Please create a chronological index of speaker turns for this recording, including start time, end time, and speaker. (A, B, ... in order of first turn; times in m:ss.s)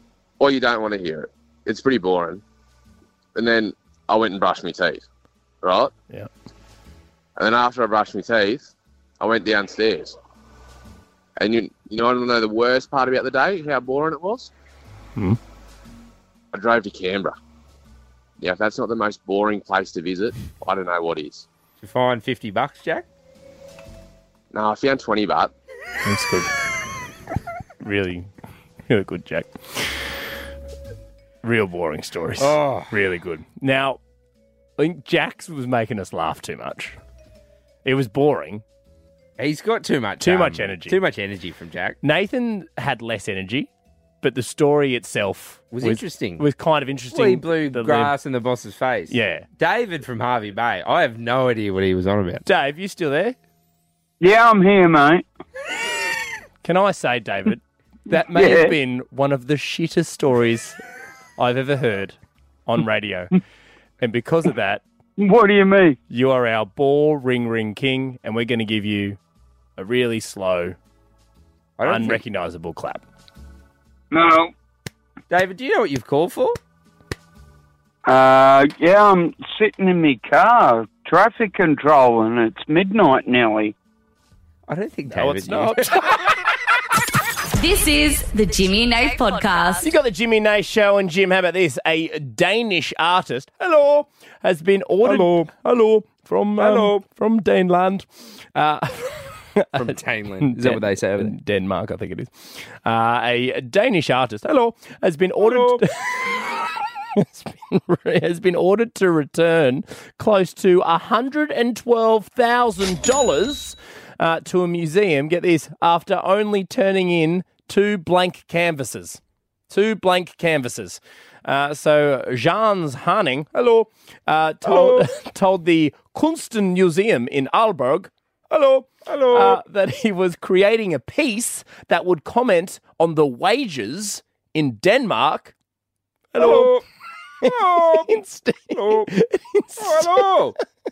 0:00.4-0:02.4 A
0:03.3-0:05.0 A
0:05.6-0:05.9 A
0:07.4-0:10.2 A
0:11.4-0:14.5 A
0:16.5-0:17.3 A
0:18.4-0:21.5 A
0:21.8-0:23.0 B
0:24.5-0:25.5 A
0:26.0-0:26.5 C
0:27.8-0:28.3 C
0:28.9-0:30.0 C
0:31.4-0:34.0 C
0:32.4-0:32.9 B
0:34.8-0:37.0 C
0:37.8-0:38.6 C
0:39.4-0:42.0 B
0:40.2-0:41.0 C
0:42.0-0:43.7 C
0:44.2-0:48.1 C
0:45.7-0:46.4 B
0:47.1-0:52.4 B
0:49.1-0:49.5 C
0:52.4-0:53.4 C
0:54.2-0:55.2 D
0:56.6-1:00.8 C
0:58.3-0:58.7 D
1:01.4-1:03.3 C
1:04.0-1:04.8 C
1:05.2-1:06.0 D
1:06.1-1:09.2 C
1:09.8-1:10.8 C
1:11.8-1:12.2 B
1:11.8-1:13.0 C
1:14.1-1:14.5 D
1:15.3-1:16.6 B
1:18.0-1:23.7 D
1:24.7-1:26.2 B
1:25.1-1:26.3 C
1:27.5-1:29.9 E
1:29.8-1:46.6 C
1:35.0-1:35.5 B
1:36.6-1:37.0 B
1:39.8-1:41.3 B
1:45.4-1:45.8 B
1:47.2-2:15.5 C
2:04.6-2:05.1 B
2:09.0-2:09.6 B
2:16.3-2:16.7 C
2:16.4-2:16.8 B
2:17.4-2:18.1 B
2:17.4-2:20.3 C
2:18.7-2:19.1 B
2:19.8-2:20.6 B